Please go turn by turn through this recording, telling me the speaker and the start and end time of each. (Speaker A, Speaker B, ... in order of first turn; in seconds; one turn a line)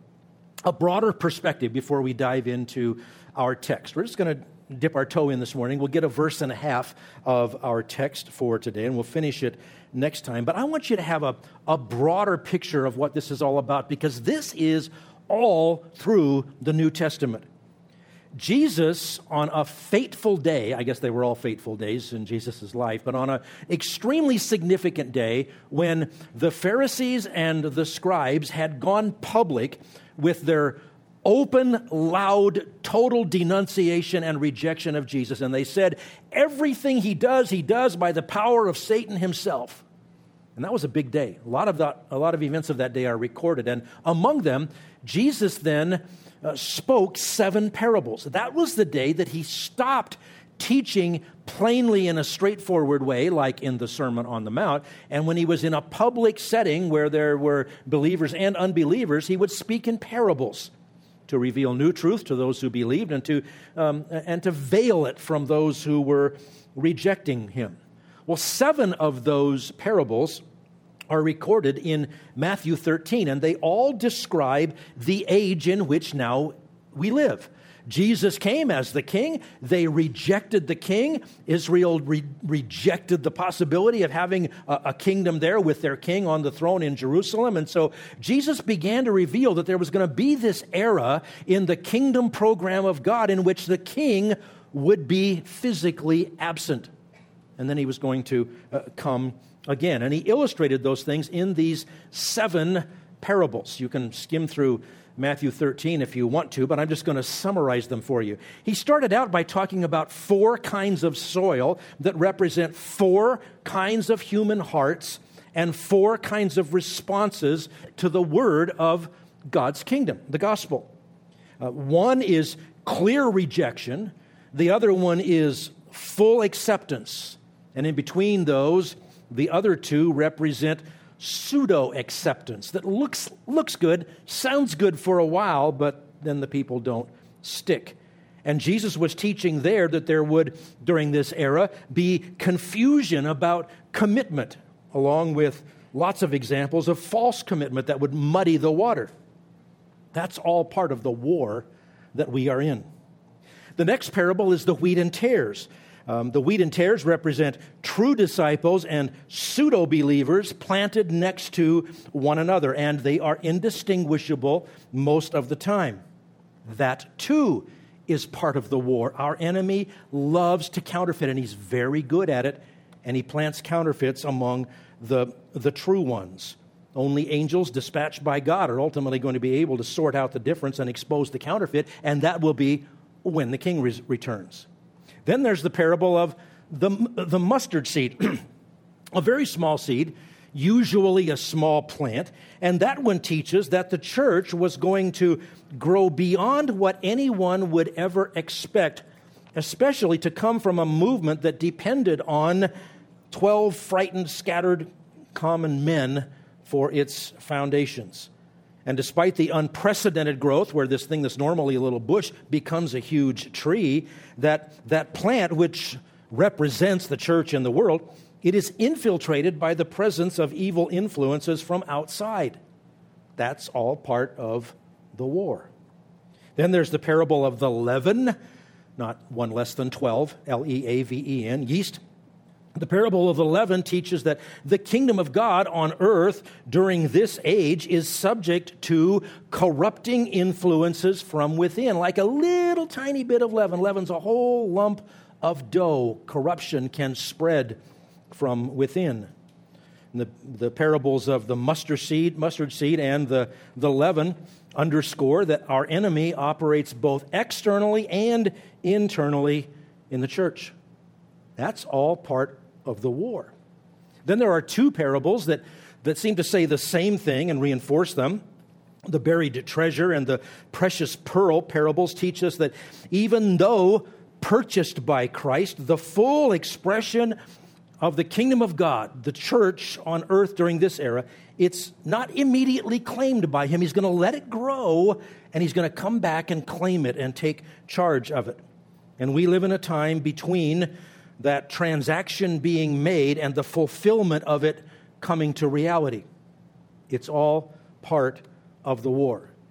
Speaker A: 0.6-17.5
Speaker A: 18.4-39.8
Speaker A: 40.6-60.7
Speaker A: 61.3-70.4
Speaker A: 71.1-96.9
Speaker A: 97.6-120.9
Speaker A: 121.6-149.1
Speaker A: 150.1-152.8
Speaker A: 153.8-166.0
Speaker A: 166.7-184.7
Speaker A: 185.2-188.4
Speaker A: 189.1-199.0
Speaker A: 199.6-202.7
Speaker A: 203.3-208.3
Speaker A: 208.8-222.6
Speaker A: 223.4-225.7
Speaker A: 226.6-228.3
Speaker A: 229.0-232.0
Speaker A: 232.8-247.8
Speaker A: 248.3-249.3
Speaker A: 250.1-260.8
Speaker A: 261.6-263.5
Speaker A: 264.2-268.4
Speaker A: 269.1-277.4
Speaker A: 278.0-288.6
Speaker A: 289.2-296.2
Speaker A: 297.1-299.5